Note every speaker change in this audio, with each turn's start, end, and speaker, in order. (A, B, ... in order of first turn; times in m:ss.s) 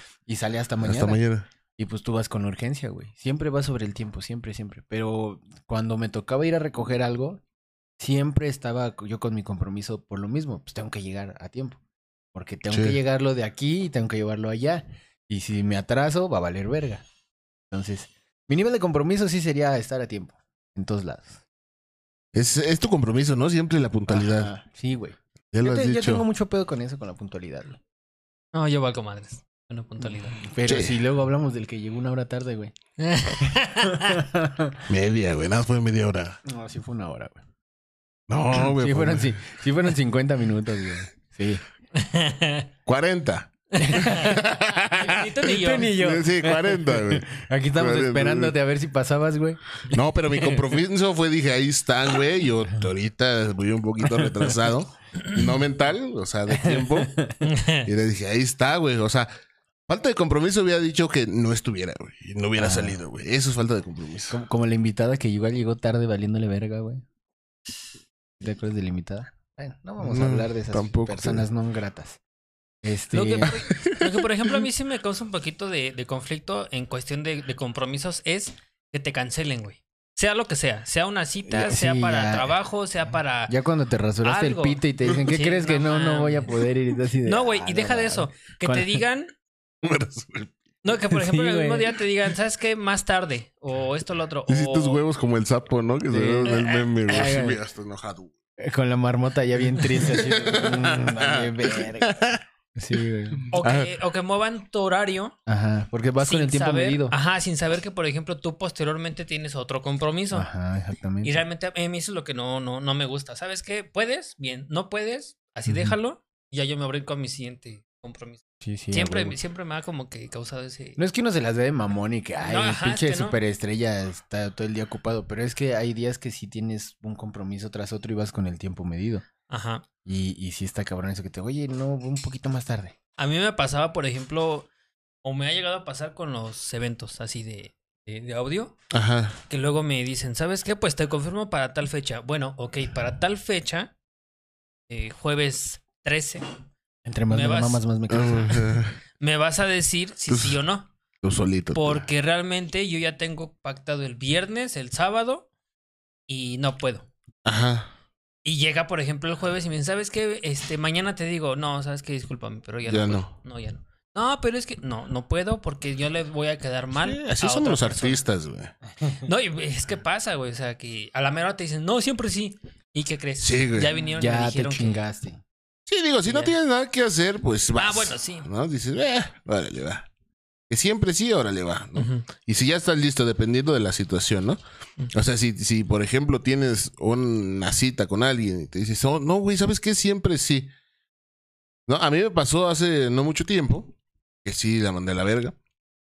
0:00.3-0:01.2 A
0:00.8-0:01.5 B
0:01.8-0:07.4 A
0:08.0-0:11.8 A
0:12.3-0:17.0 A
0:12.7-0:13.0 B
0:17.7-0:21.4 A
0:22.3-0:24.5 B
0:24.1-0:27.8 A
0:25.5-0:26.3 B
0:28.5-0:30.4 C
0:30.4-0:32.7 A
0:30.6-0:31.0 B
0:33.0-0:34.2 C
0:33.9-0:34.8 A
0:34.9-0:36.4 B
0:36.4-0:37.4 A
0:38.3-0:39.3 B
0:38.5-0:41.6 A
0:42.0-0:42.7 C
0:42.9-0:48.5 B
0:43.8-0:46.0 C
0:43.8-0:44.4 A
0:45.5-0:49.6 A
0:49.9-0:57.2 B
0:56.5-0:57.4 A
0:57.4-0:57.9 C
0:57.8-0:59.3 B
0:59.9-1:04.4 B
1:02.6-1:03.0 A
1:04.3-1:07.0 A
1:08.4-1:12.2 A
1:10.0-1:11.5 B
1:12.8-1:13.5 A
1:13.1-1:23.5 C
1:13.4-1:14.6 B
1:21.5-1:22.5 A
1:23.5-1:29.0 A
1:24.2-1:26.6 C
1:27.2-1:29.3 C
1:29.8-1:30.5 B
1:30.8-1:35.0 C
1:31.2-1:31.9 A
1:34.5-1:38.3 B
1:36.1-1:37.6 A
1:36.4-1:36.8 C
1:38.6-1:42.2 A
1:39.8-1:42.4 B
1:42.8-1:43.6 A
1:43.5-1:43.9 B
1:43.5-1:45.4 C
1:45.5-1:47.1 A
1:46.2-1:50.5 C
1:50.3-1:51.4 A
1:51.2-2:01.0 C
1:55.7-1:56.0 A
1:58.6-1:59.4 A
2:01.0-2:09.2 A
2:02.4-2:03.4 C
2:09.5-2:09.9 C
2:10.0-2:13.0 A
2:13.2-2:14.7 C
2:15.2-2:18.8 C
2:18.9-2:19.4 B
2:19.5-2:23.9 C
2:24.9-2:26.4 C
2:27.1-2:28.6 A
2:27.3-2:27.8 C
2:28.1-2:29.0 B
2:29.2-2:30.9 C
2:30.3-2:30.6 B
2:31.2-2:32.1 B
2:31.7-2:35.5 C
2:36.3-2:37.1 C
2:37.5-2:37.9 B
2:38.4-2:48.2 C
2:42.9-2:43.3 B
2:46.9-2:48.7 B
2:49.2-2:55.0 C
2:53.4-2:54.0 B
2:54.0-2:55.4 A
2:55.9-3:00.1 B
2:56.3-2:56.6 C
2:57.8-2:58.5 C
3:00.7-3:04.6 B
3:02.0-3:02.3 C
3:05.1-3:10.7 B
3:11.9-3:13.9 B
3:14.4-3:15.6 B